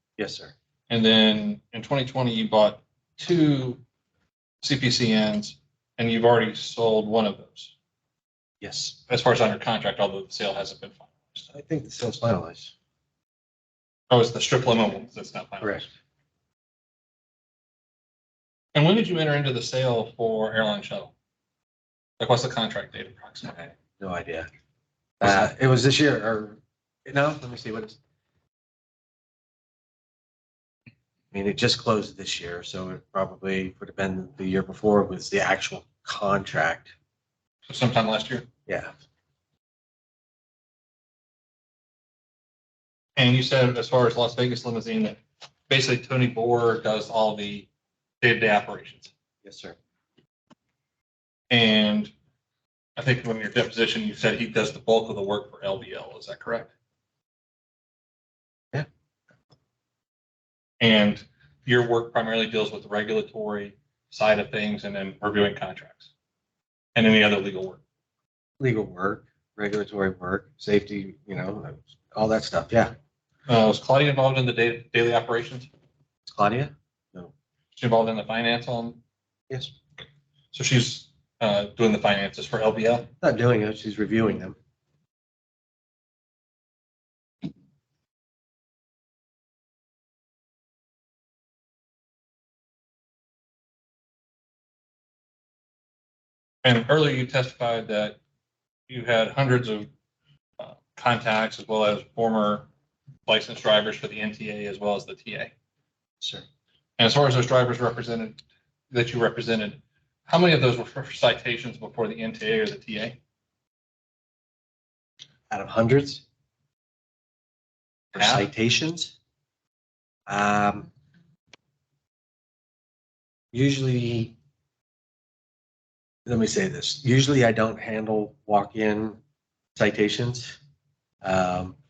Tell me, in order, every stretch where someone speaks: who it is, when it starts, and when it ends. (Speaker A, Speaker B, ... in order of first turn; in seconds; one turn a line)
Speaker A: 0.2-0.5
Speaker B: 0.9-3.8
Speaker B: 4.6-7.7
Speaker A: 8.6-9.0
Speaker B: 9.1-11.5
Speaker A: 11.5-12.7
Speaker B: 14.1-15.9
Speaker B: 18.7-21.1
Speaker B: 22.2-23.7
Speaker A: 24.0-24.5
Speaker A: 25.2-28.0
Speaker A: 31.3-36.9
Speaker B: 37.7-38.5
Speaker B: 43.2-45.2
Speaker B: 45.7-47.7
Speaker B: 48.2-49.1
Speaker A: 49.4-49.8
Speaker B: 51.5-52.1
Speaker B: 53.0-56.7
Speaker B: 60.8-66.1
Speaker B: 66.9-67.8
Speaker A: 68.6-72.9
Speaker B: 73.5-75.7
Speaker A: 76.3-77.3
Speaker B: 77.8-79.0
Speaker B: 80.5-83.1
Speaker A: 83.2-84.6
Speaker B: 96.6-98.2
Speaker B: 98.9-99.9
Speaker B: 100.6-102.7
Speaker B: 103.3-105.5
Speaker A: 106.2-106.4
Speaker B: 107.0-108.4
Speaker B: 108.9-113.2
Speaker A: 115.5-116.2
Speaker A: 118.1-119.1
Speaker B: 118.2-118.5
Speaker A: 120.3-120.9
Speaker A: 123.5-124.3
Speaker A: 126.2-129.2
Speaker A: 129.8-130.6
Speaker A: 131.2-131.7